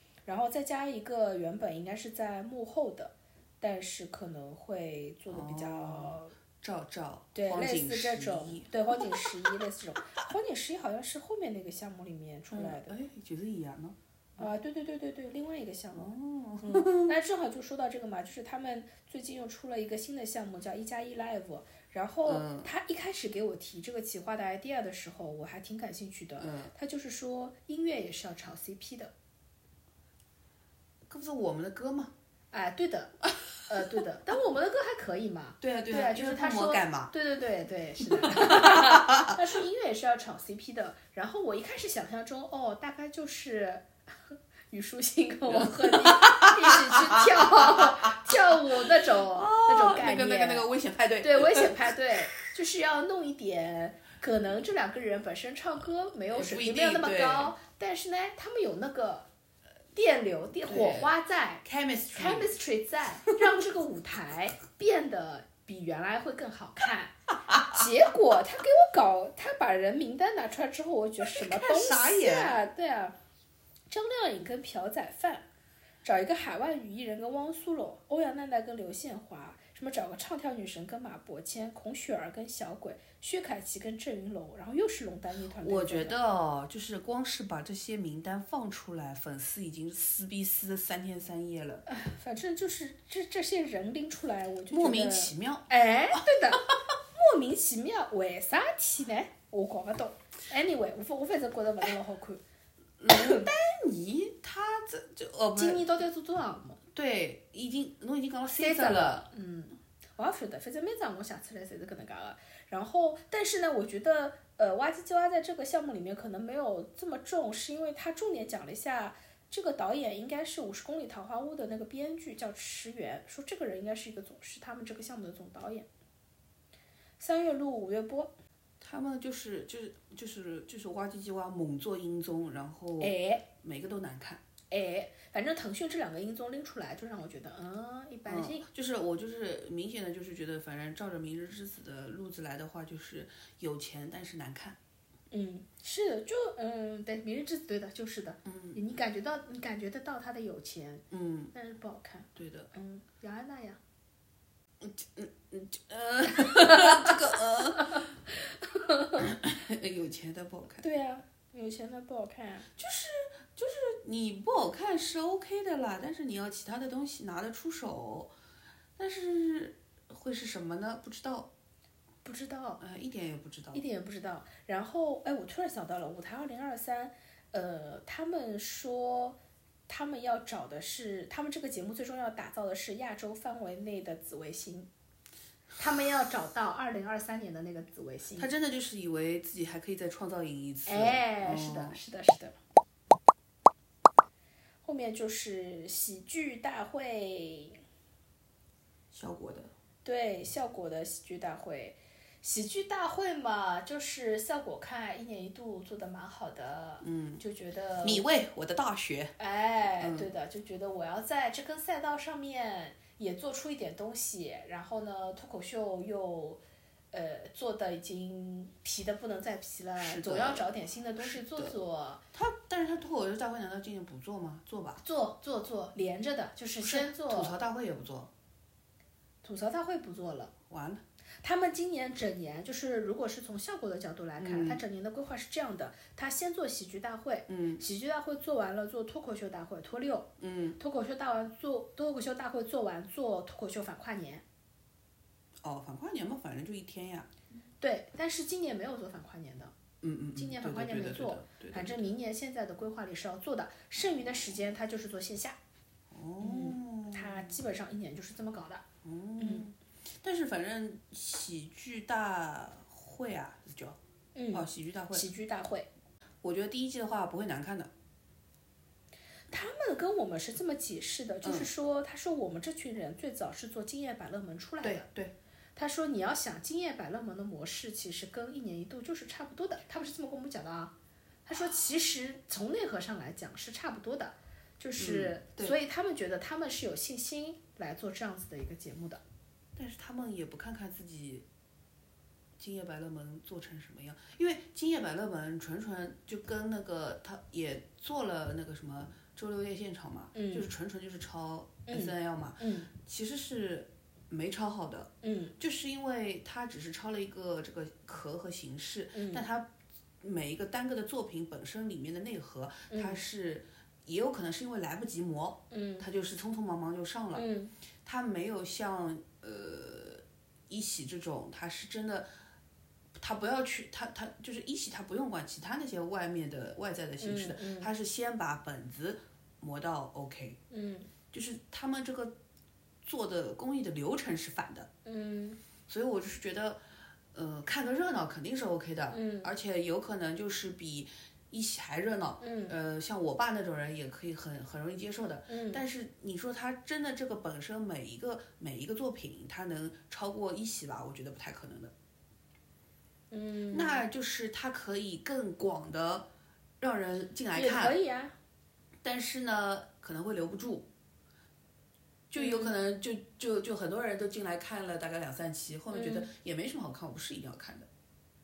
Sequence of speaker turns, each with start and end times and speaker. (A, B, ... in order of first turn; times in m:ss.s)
0:00.2-0:06.3 A
0:05.3-0:09.3 B
0:07.3-0:13.0 A
0:12.5-0:14.5 B
0:14.4-0:29.1 A
0:15.9-0:17.1 B
0:22.2-0:22.7 B
0:26.4-0:26.7 B
0:31.1-0:32.1 B
0:32.5-0:50.7 A
0:35.6-0:37.1 B
0:38.1-0:39.4 B
0:45.5-0:51.9 B
0:51.2-0:59.3 A
0:56.3-0:57.5 B
0:59.9-1:13.2 A
1:00.6-1:02.5 B
1:07.5-1:07.8 B
1:11.2-1:12.6 B
1:13.9-1:15.4 A
1:16.0-1:26.2 A
1:25.6-1:31.8 B
1:31.9-1:42.4 A
1:34.7-1:36.2 B
1:43.0-1:45.8 B
1:43.1-1:43.5 A
1:45.5-1:46.8 A
1:46.9-1:49.3 B
1:48.5-2:05.9 A
2:07.2-2:08.3 A
2:08.8-2:14.4 B
2:13.0-2:13.4 A
2:14.7-2:18.6 A
2:18.2-2:24.8 B
2:25.3-2:33.8 A
2:28.4-2:28.8 B
2:31.1-2:31.5 B
2:32.4-2:32.7 B
2:34.8-2:38.1 B
2:36.3-2:38.1 A
2:38.6-2:39.3 A
2:39.2-2:40.8 B
2:40.8-2:42.7 A
2:42.8-2:48.3 B
2:49.0-2:51.5 B
2:52.2-2:52.8 A
2:52.8-2:53.8 B
2:53.7-3:04.9 A
3:05.8-3:08.5 A
3:08.4-3:12.0 B
3:10.9-3:12.6 A
3:14.8-3:17.8 A
3:19.1-3:19.7 B
3:20.0-3:28.2 A
3:27.0-3:27.4 B
3:28.0-3:29.3 B
3:29.4-3:42.2 A
3:30.0-3:30.3 B
3:40.0-3:40.7 B
3:41.2-3:41.8 B
3:42.3-3:45.0 B
3:45.0-3:47.6 A
3:46.8-3:48.3 B
3:49.4-3:50.5 A
3:50.7-3:51.0 B
3:51.4-4:04.4 A
3:54.4-3:54.8 B
3:57.5-3:57.8 B
4:00.4-4:00.8 B
4:05.6-4:07.3 B
4:07.8-4:09.7 A
4:10.0-4:12.1 B
4:10.3-4:15.6 A
4:16.1-4:17.5 B
4:16.4-4:18.8 A
4:19.0-4:24.0 B
4:19.4-4:19.7 A
4:24.3-4:25.9 A
4:24.5-4:25.3 B
4:26.4-4:27.9 B
4:29.5-4:35.0 A
4:31.4-4:31.7 B
4:34.8-4:35.3 B
4:35.8-4:40.9 A
4:41.4-4:49.2 A
4:45.0-4:45.8 B
4:49.8-4:51.4 B
4:52.6-5:09.7 B
5:00.3-5:00.7 A
5:01.9-5:02.9 A
5:05.2-5:05.5 A
5:09.1-5:09.4 A
5:10.2-5:17.5 B
5:12.9-5:13.2 A
5:15.7-5:16.0 A
5:17.3-5:17.7 A
5:18.0-5:22.3 B
5:23.2-5:30.6 B
5:27.2-5:27.9 A
5:30.7-5:31.1 A
5:31.3-5:32.4 B
5:33.0-5:34.9 B
5:35.0-5:35.6 A
5:35.9-5:36.8 B
5:37.3-5:51.9 B
5:39.1-5:39.5 A
5:42.4-5:42.7 A
5:45.5-5:45.8 A
5:53.3-5:54.0 A
5:53.7-5:56.3 B
5:56.8-5:58.0 B
5:57.5-5:58.3 A
5:59.0-6:00.9 B
6:02.3-6:07.9 B
6:02.4-6:02.7 A
6:05.9-6:06.3 A